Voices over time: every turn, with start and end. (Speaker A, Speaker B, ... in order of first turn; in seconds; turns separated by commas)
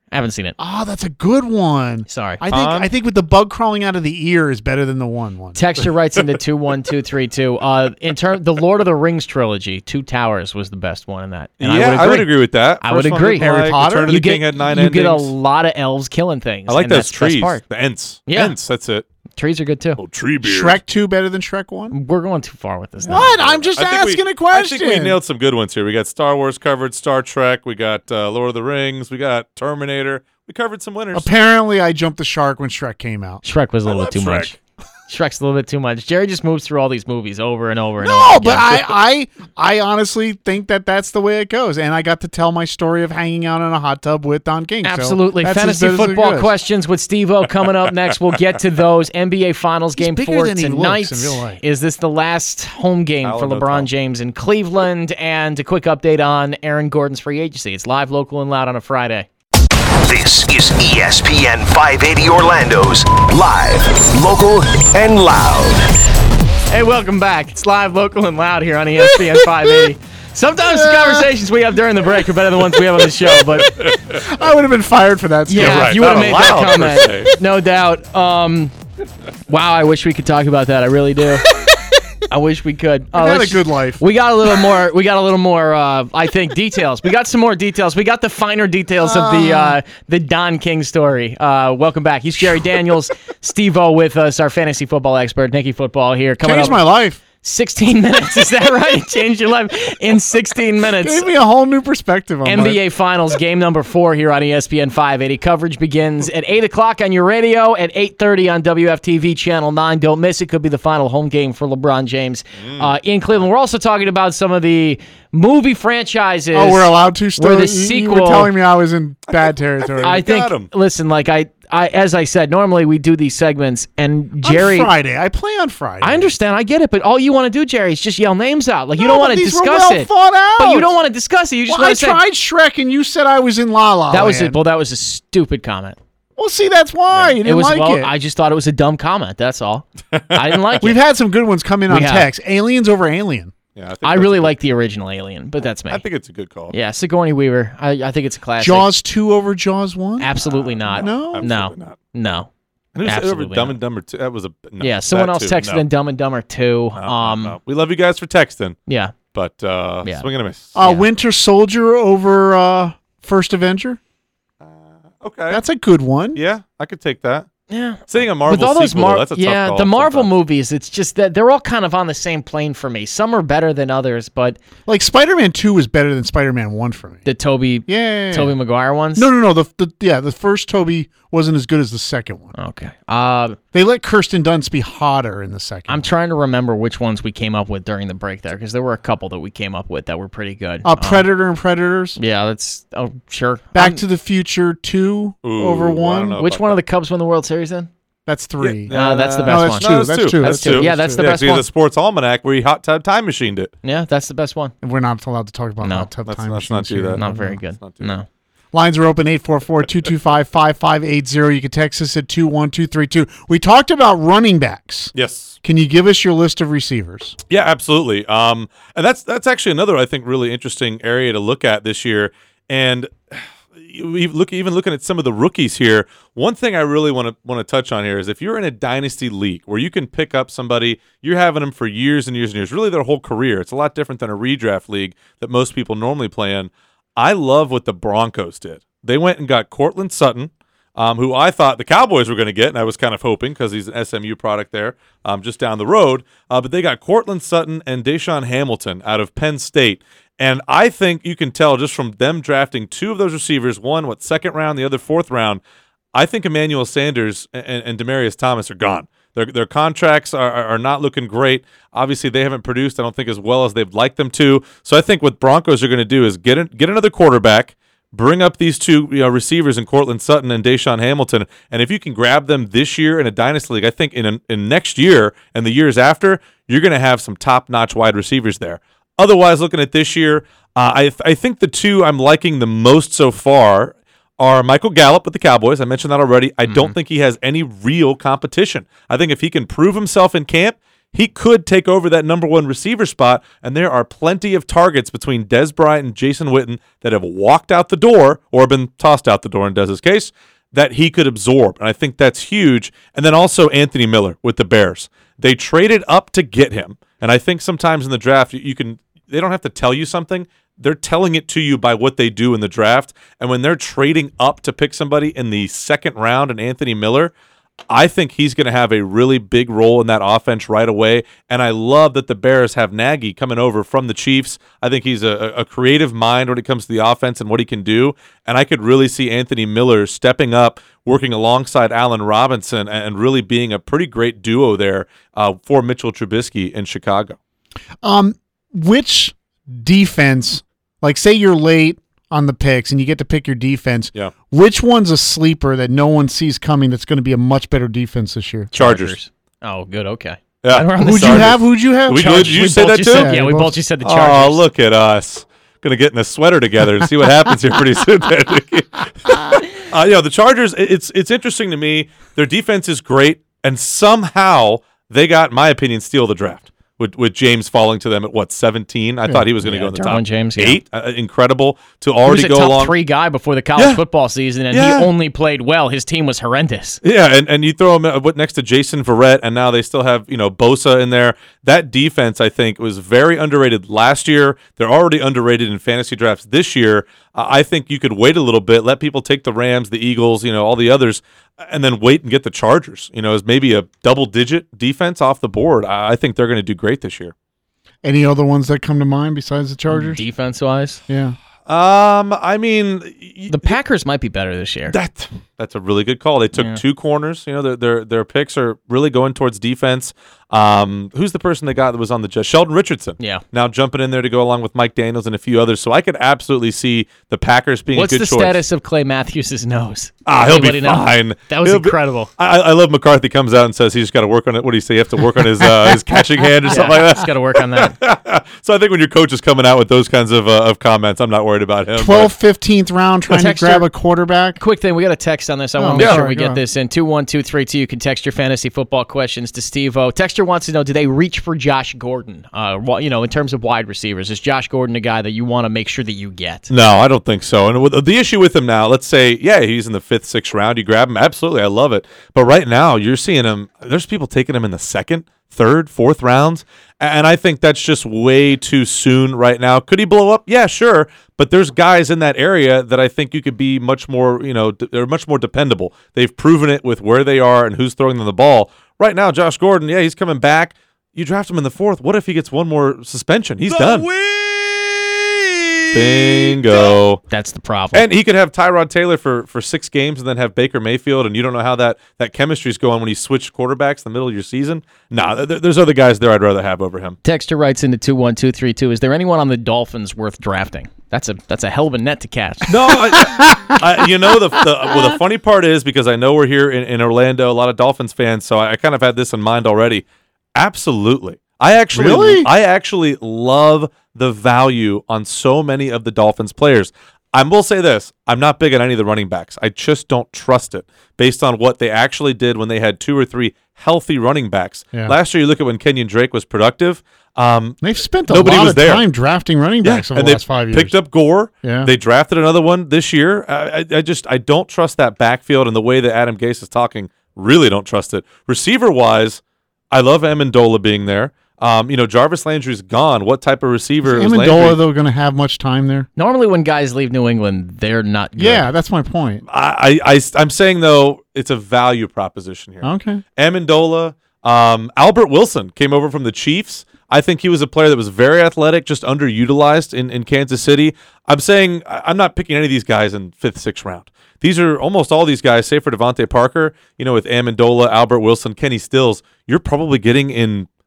Speaker A: 0.1-0.6, Speaker B: 0.6-5.6, Speaker A: 2.1-2.4, Speaker C: 2.5-2.9, Speaker A: 5.5-13.5, Speaker C: 11.6-15.3, Speaker B: 13.3-14.2, Speaker A: 14.1-17.6, Speaker C: 16.7-19.1, Speaker A: 18.3-18.6, Speaker A: 19.4-20.0, Speaker C: 20.0-20.8, Speaker B: 20.4-21.9, Speaker A: 21.9-23.6, Speaker B: 23.1-25.2, Speaker C: 23.1-31.3, Speaker B: 31.1-33.4, Speaker A: 33.4-34.6, Speaker C: 33.9-34.5, Speaker A: 35.1-38.9, Speaker B: 38.0-46.5, Speaker A: 44.8-59.3, Speaker B: 50.0-51.6, Speaker C: 53.2-53.9, Speaker D: 60.1-65.9, Speaker A: 66.7-73.8, Speaker B: 69.1-69.9, Speaker B: 70.6-71.3, Speaker C: 73.7-74.1, Speaker B: 73.7-76.9, Speaker A: 75.5-78.7, Speaker C: 75.5-77.3, Speaker A: 79.5-81.5, Speaker A: 82.3-96.8, Speaker B: 83.1-84.0, Speaker B: 89.0-89.8, Speaker B: 96.4-97.2, Speaker A: 97.4-101.3, Speaker B: 101.0-102.8, Speaker A: 102.5-118.5, Speaker C: 112.6-112.9, Speaker B: 116.5-120.2, Speaker C: 119.3-120.7, Speaker A: 120.0-124.9, Speaker B: 124.4-126.3, Speaker A: 126.0-132.2, Speaker B: 129.0-130.9, Speaker B: 131.7-134.6, Speaker A: 134.1-136.0, Speaker B: 136.4-138.1, Speaker A: 137.4-141.0, Speaker C: 140.1-140.8, Speaker B: 140.8-143.5, Speaker A: 141.9-142.3, Speaker C: 143.8-144.5, Speaker A: 144.0-146.0, Speaker C: 145.9-146.7, Speaker A: 146.7-148.9, Speaker B: 148.6-150.3, Speaker A: 150.2-152.5, Speaker C: 150.4-152.0, Speaker B: 150.9-151.5, Speaker C: 152.9-155.8, Speaker A: 153.1-153.8, Speaker A: 154.8-157.6, Speaker C: 157.0-158.8, Speaker A: 158.9-159.2, Speaker C: 159.3-160.7, Speaker B: 160.8-164.0, Speaker A: 160.8-161.1, Speaker C: 164.6-165.6, Speaker B: 165.5-166.4, Speaker C: 166.3-167.5, Speaker A: 167.7-174.6, Speaker C: 168.1-170.3, Speaker B: 174.9-177.2, Speaker A: 177.2-179.3, Speaker B: 177.9-178.6, Speaker B: 179.2-182.5, Speaker A: 182.6-183.6, Speaker B: 183.7-186.1, Speaker A: 185.9-191.3, Speaker B: 190.8-192.2, Speaker A: 192.2-194.0, Speaker B: 193.7-196.4, Speaker C: 195.4-196.8, Speaker A: 196.4-197.9, Speaker B: 198.3-201.3, Speaker C: 198.6-203.7, Speaker A: 198.9-201.7, Speaker A: 203.8-204.7, Speaker B: 204.8-207.6, Speaker A: 205.8-206.1, Speaker C: 206.3-208.1, Speaker A: 207.2-208.3, Speaker B: 208.7-217.4, Speaker C: 215.1-215.6, Speaker C: 217.5-255.6, Speaker C: 256.1-317.3, Speaker A: 286.6-286.9, Speaker C: 317.9-337.4, Speaker B: 338.0-348.7, Speaker A: 348.7-354.6, Speaker C: 348.8-349.2, Speaker C: 350.6-353.4, Speaker B: 351.0-353.8, Speaker C: 354.0-373.0, Speaker A: 369.6-370.8, Speaker A: 372.2-377.0, Speaker C: 373.8-374.0, Speaker C: 374.7-375.1, Speaker C: 377.0-397.3, Speaker B: 398.0-400.2, Speaker A: 399.9-401.0, Speaker B: 401.1-401.4, Speaker C: 401.7-403.8, Speaker A: 403.5-404.9, Speaker C: 404.9-418.6, Speaker A: 406.6-406.8, Speaker A: 413.2-413.4, Speaker A: 417.9-422.3, Speaker C: 420.3-432.3, Speaker A: 426.6-428.0, Speaker B: 431.9-434.6, Speaker A: 433.3-433.9, Speaker A: 434.6-446.7, Speaker B: 435.8-436.6, Speaker C: 435.9-436.2, Speaker C: 446.7-477.2, Speaker B: 473.7-474.0, Speaker A: 477.3-478.1, Speaker C: 477.9-487.2, Speaker A: 487.2-492.8, Speaker C: 492.7-519.0, Speaker B: 492.9-494.0, Speaker B: 494.9-495.1, Speaker B: 501.9-502.5, Speaker B: 517.8-521.0, Speaker C: 519.8-534.8, Speaker B: 521.6-521.9, Speaker B: 534.0-536.1, Speaker A: 536.2-538.7, Speaker B: 538.4-539.4, Speaker C: 539.5-560.7, Speaker B: 542.8-543.2